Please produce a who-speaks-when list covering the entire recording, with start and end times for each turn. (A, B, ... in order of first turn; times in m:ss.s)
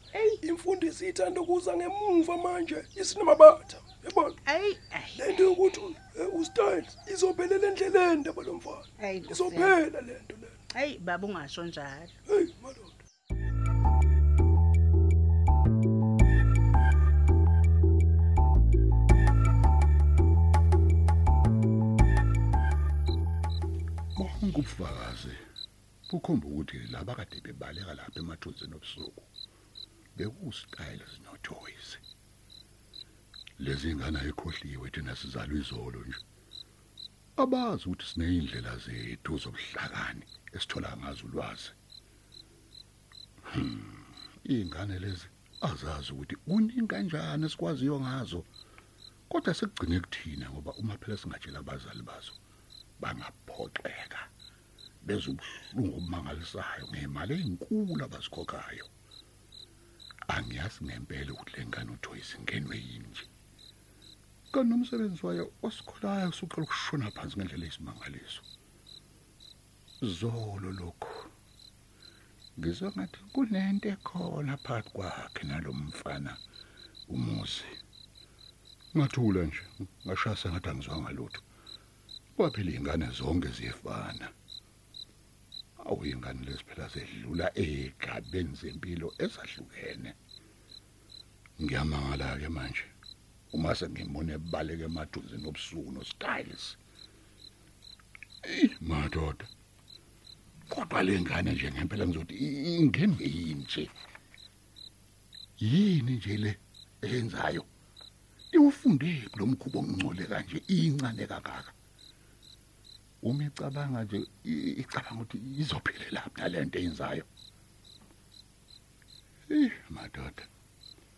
0:00.4-0:04.4 A
0:04.5-0:05.5 B
0:05.2-0:10.5 A
0:09.0-0:09.7 B
0:10.7-0:12.1 B
0:12.3-0:13.0 A
0:24.2-0:25.4 C
0:26.1-0:29.3 C
0:30.2-0:32.0 C
0:33.6-0:36.2 C
0:37.4-0:41.7 C
0:43.5-0:48.5 C
0:49.3-0:52.4 C
0:53.0-0:54.3 C
0:55.0-0:58.9 C
1:00.3-1:03.3 C
1:04.5-1:08.4 C
1:10.0-1:11.3 C
1:12.6-1:16.4 C
1:17.1-1:17.8 C
1:18.9-1:21.4 C
1:22.4-1:24.3 C
1:25.8-1:30.1 C
1:31.6-1:32.9 C
1:33.5-1:36.8 C
1:38.4-1:39.5 C
1:40.7-1:43.9 C
1:45.6-1:47.7 C
1:48.5-1:51.7 C
1:53.2-1:57.3 C
1:59.5-2:00.5 C